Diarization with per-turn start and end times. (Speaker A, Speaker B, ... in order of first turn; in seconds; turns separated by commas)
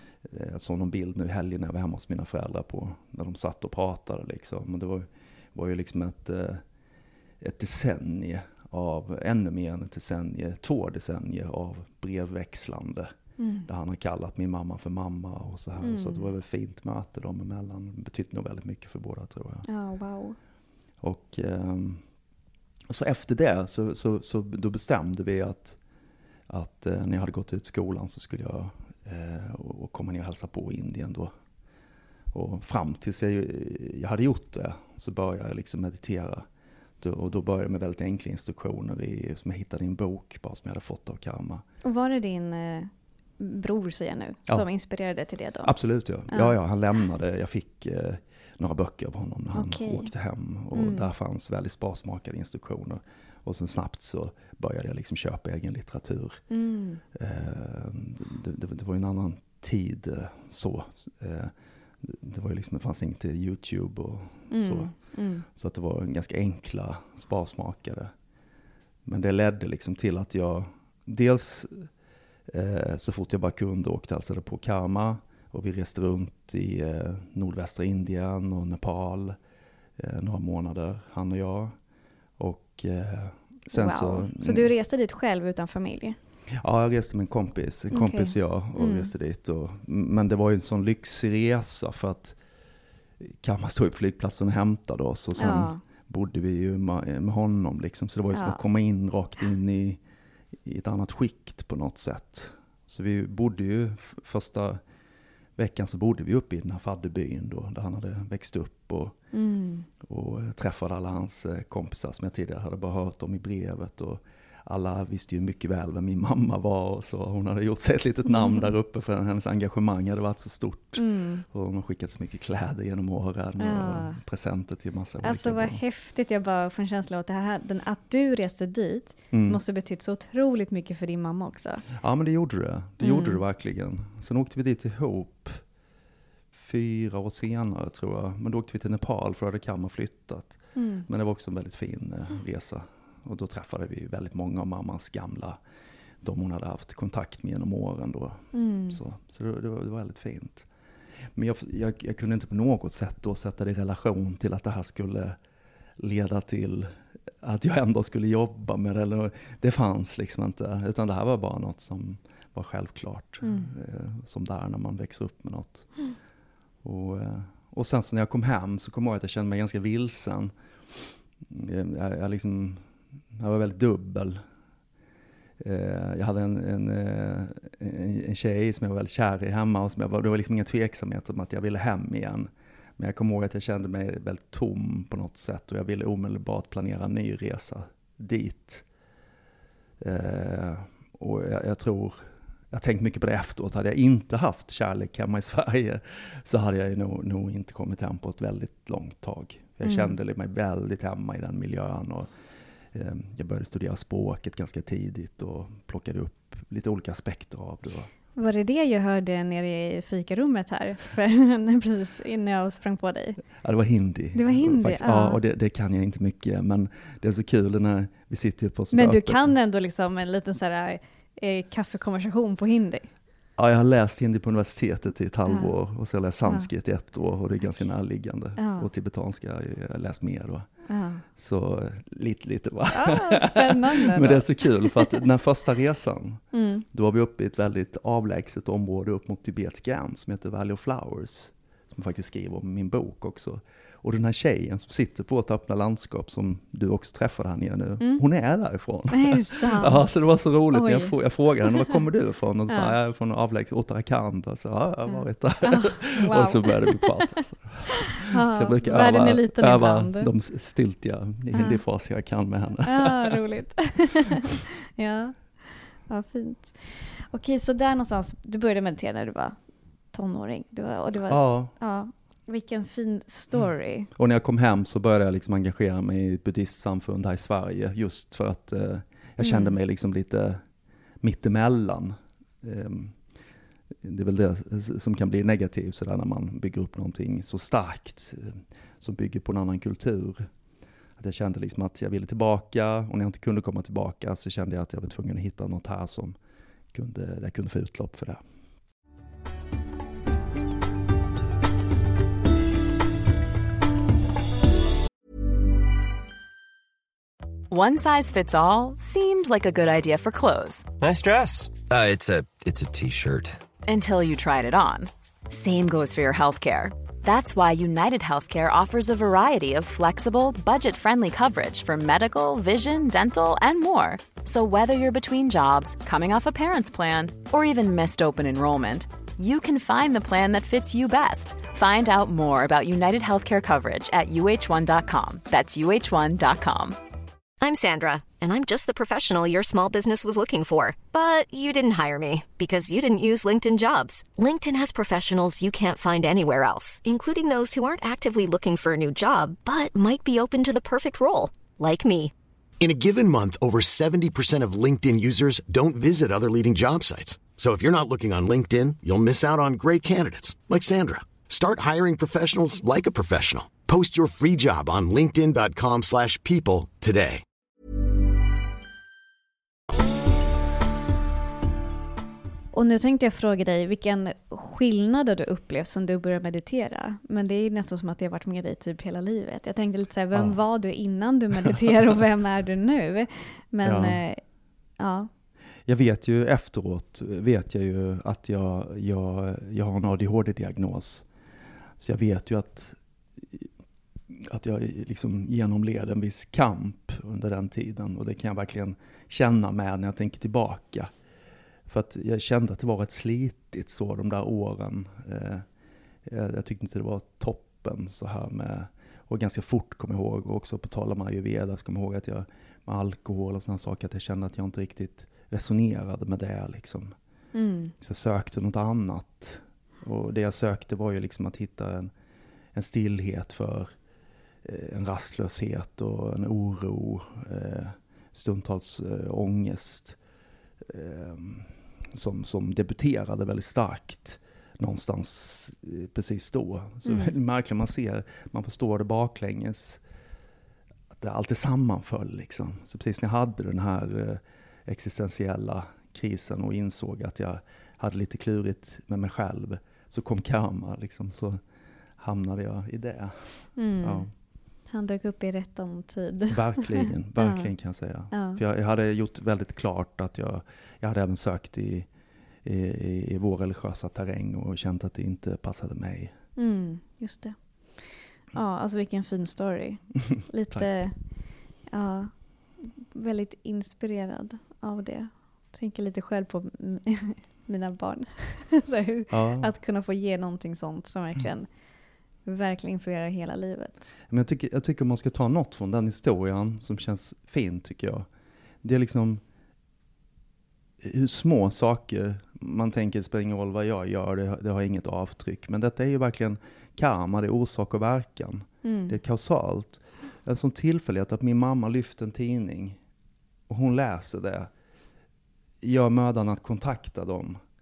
Speaker A: 0.2-6.6, Speaker A: 7.4-13.1, Speaker B: 13.4-13.7, Speaker A: 13.7-19.7, Speaker B: 15.8-16.3, Speaker B: 19.6-20.4, Speaker A: 21.0-22.0, Speaker A: 22.9-25.8, Speaker A: 26.5-31.3, Speaker A: 32.3-36.5, Speaker A: 37.0-41.6, Speaker B: 41.8-45.7, Speaker A: 45.6-56.4, Speaker B: 46.3-46.6, Speaker B: 49.5-50.1, Speaker B: 50.7-51.1, Speaker B: 56.5-57.0, Speaker A: 57.1-68.1, Speaker B: 64.5-65.5, Speaker A: 69.1-71.9, Speaker A: 72.5-79.4, Speaker A: 80.0-81.8, Speaker A: 82.4-84.7, Speaker B: 83.7-86.2, Speaker A: 86.6-92.4, Speaker B: 87.9-89.1, Speaker A: 93.2-100.0, Speaker B: 95.4-95.8, Speaker B: 98.3-98.6, Speaker A: 100.7-104.8, Speaker A: 105.6-109.2, Speaker B: 109.3-109.9, Speaker A: 110.0-125.8, Speaker B: 118.3-118.7, Speaker B: 121.0-121.5, Speaker B: 123.6-124.2, Speaker B: 125.2-131.8, Speaker A: 129.3-129.6, Speaker A: 132.0-135.6, Speaker B: 133.0-133.4, Speaker A: 136.5-145.6, Speaker B: 140.8-141.1, Speaker A: 146.2-150.7, Speaker B: 148.5-149.0, Speaker A: 151.3-155.4, Speaker A: 156.0-166.0, Speaker B: 163.4-163.7, Speaker A: 166.8-170.5, Speaker A: 171.5-174.4, Speaker A: 175.6-188.8, Speaker A: 190.0-202.3, Speaker B: 199.8-200.2, Speaker A: 202.9-208.1, Speaker B: 208.4-213.4, Speaker A: 213.6-219.5, Speaker B: 214.3-215.4, Speaker B: 218.9-223.1, Speaker A: 223.6-230.7, Speaker B: 225.5-225.8, Speaker B: 226.4-226.7, Speaker B: 228.6-228.9, Speaker B: 230.9-231.2, Speaker A: 231.3-263.4, Speaker B: 232.9-235.2, Speaker B: 236.5-236.8, Speaker B: 249.1-250.1, Speaker B: 250.7-252.0, Speaker B: 252.7-253.0, Speaker B: 255.1-257.3, Speaker B: 258.3-260.3, Speaker B: 261.5-261.8, Speaker B: 262.8-269.6, Speaker B: 270.1-274.1, Speaker A: 271.3-271.7, Speaker A: 274.1-280.6, Speaker B: 279.4-279.8, Speaker A: 281.2-283.2, Speaker A: 284.0-290.5, Speaker A: 291.2-296.4, Speaker A: 296.9-298.4, Speaker C: 307.7-310.9, Speaker D: 311.0-313.6, Speaker C: 313.9-337.0, Speaker E: 337.6-352.3, Speaker F: 352.8-367.4, Speaker B: 372.7-384.4, Speaker A: 383.8-384.2, Speaker B: 385.0-385.3, Speaker A: 385.9-391.3, Speaker A: 392.0-393.7, Speaker A: 394.3-401.1, Speaker A: 401.9-405.6, Speaker A: 406.3-417.1, Speaker B: 417.5-417.9, Speaker A: 418.0-422.1, Speaker A: 422.7-423.9, Speaker A: 424.6-430.2, Speaker A: 430.9-440.0, Speaker B: 437.1-437.4, Speaker A: 441.1-451.6, Speaker A: 452.2-454.3, Speaker B: 453.8-454.3, Speaker B: 454.9-457.7, Speaker A: 456.5-462.1, Speaker B: 458.3-458.6, Speaker A: 462.6-466.4, Speaker B: 466.6-481.7, Speaker A: 479.3-479.7, Speaker B: 482.4-484.1, Speaker A: 484.3-488.3, Speaker A: 488.8-489.4, Speaker A: 491.0-503.0, Speaker B: 498.8-499.2, Speaker A: 503.7-504.7, Speaker A: 505.8-507.6